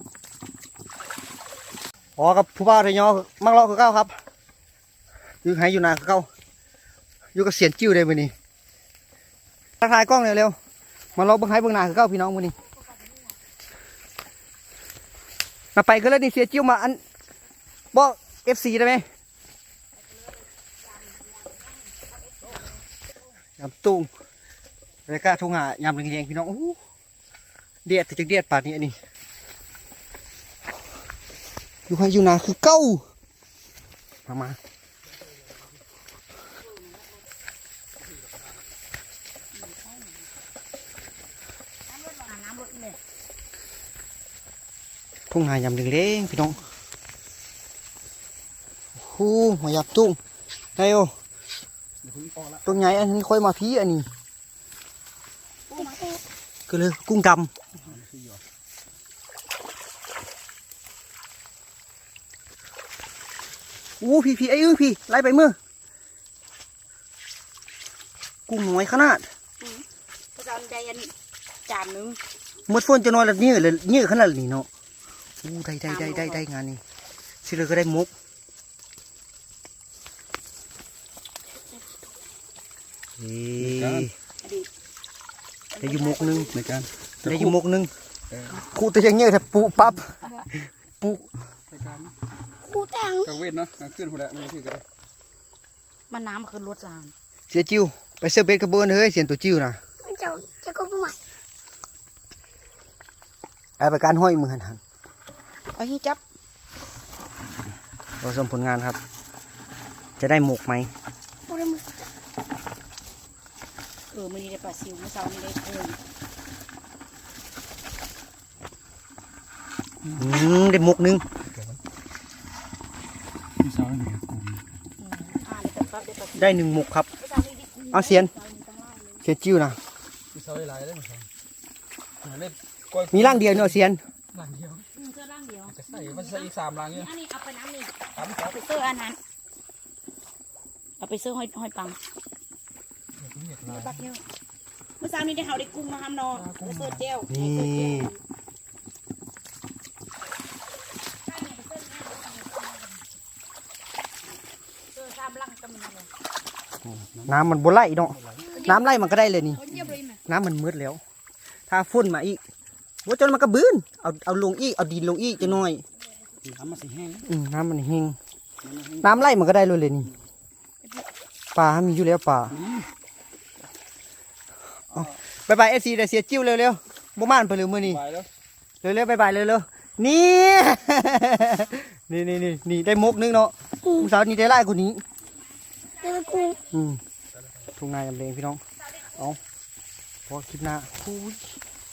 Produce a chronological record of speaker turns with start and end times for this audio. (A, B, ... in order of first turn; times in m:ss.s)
0:02.2-0:04.2 A
0:05.4-0:06.3 A
0:07.3-0:08.3 A
0:09.8-0:10.6 A
0:11.2-0:12.6 A
0:15.8-0:17.0 A
0:17.9-0:19.1 A
0:21.2-0:22.5 B
0:23.6-0:24.1 A
0:25.1-0:26.8 A
0:27.8-0:29.0 A
0:31.9-0:33.0 A
0:34.3-0:34.6 A
0:39.5-0:40.3 B
0:41.9-0:43.0 B
0:45.3-0:46.6 A
0:49.0-0:50.2 A
0:50.8-0:51.1 A
0:52.1-0:52.5 C
0:52.6-0:54.1 A
0:55.7-0:56.2 B
0:56.7-0:57.5 A
1:04.0-1:05.6 A
1:08.5-1:09.3 A
1:09.6-1:11.1 B
1:11.7-1:12.2 B
1:12.7-1:14.7 A
1:15.4-1:16.8 A
1:15.9-1:16.4 B
1:17.4-1:18.1 A
1:23.2-1:24.1 A
1:23.6-1:24.1 C
1:24.4-1:24.7 B
1:25.8-1:26.5 B
1:25.8-1:26.6 A
1:26.5-1:27.4 C
1:27.2-1:27.9 A
1:28.5-1:31.3 A
1:31.7-1:32.1 C
1:32.7-1:33.4 B
1:33.2-1:34.8 C
1:36.1-1:37.1 B
1:37.5-1:39.8 A
1:40.0-1:41.2 B
1:43.8-1:44.8 A
1:45.8-1:46.2 B
1:48.2-1:49.0 A
1:50.2-1:50.9 A
1:51.5-1:51.9 B
1:54.1-1:56.0 B
2:00.1-2:01.2 A
2:03.6-2:04.6 C
2:05.0-2:06.6 B
2:06.4-2:07.1 A
2:07.2-2:09.2 B
2:07.9-2:08.3 A
2:09.2-2:09.8 A
2:10.3-2:11.3 C
2:12.2-2:13.8 C
2:13.1-2:14.0 A
2:14.3-2:14.9 C
2:14.8-2:19.2 B
2:15.7-2:17.1 C
2:18.2-2:18.6 C
2:21.0-2:22.0 B
2:23.2-2:24.0 C
2:23.7-2:24.2 B
2:25.0-2:28.2 B
2:26.4-2:27.0 C
2:27.3-2:28.1 A
2:31.3-2:33.0 B
2:34.9-2:36.1 B
2:37.2-2:39.7 A
2:38.2-2:38.6 C
2:38.4-2:40.2 B
2:40.3-2:41.0 A
2:41.7-2:42.4 A
2:43.0-2:45.8 A
2:46.4-2:47.2 C
2:47.2-2:48.2 A
2:48.7-2:49.1 C
2:49.0-2:50.1 A
2:51.6-2:52.6 A
2:52.6-2:52.8 C
2:54.9-2:58.1 A
2:57.9-2:58.3 C
2:58.8-3:05.0 A
3:05.8-3:06.6 B
3:06.6-3:07.0 A
3:07.8-3:09.4 A
3:10.3-3:11.6 A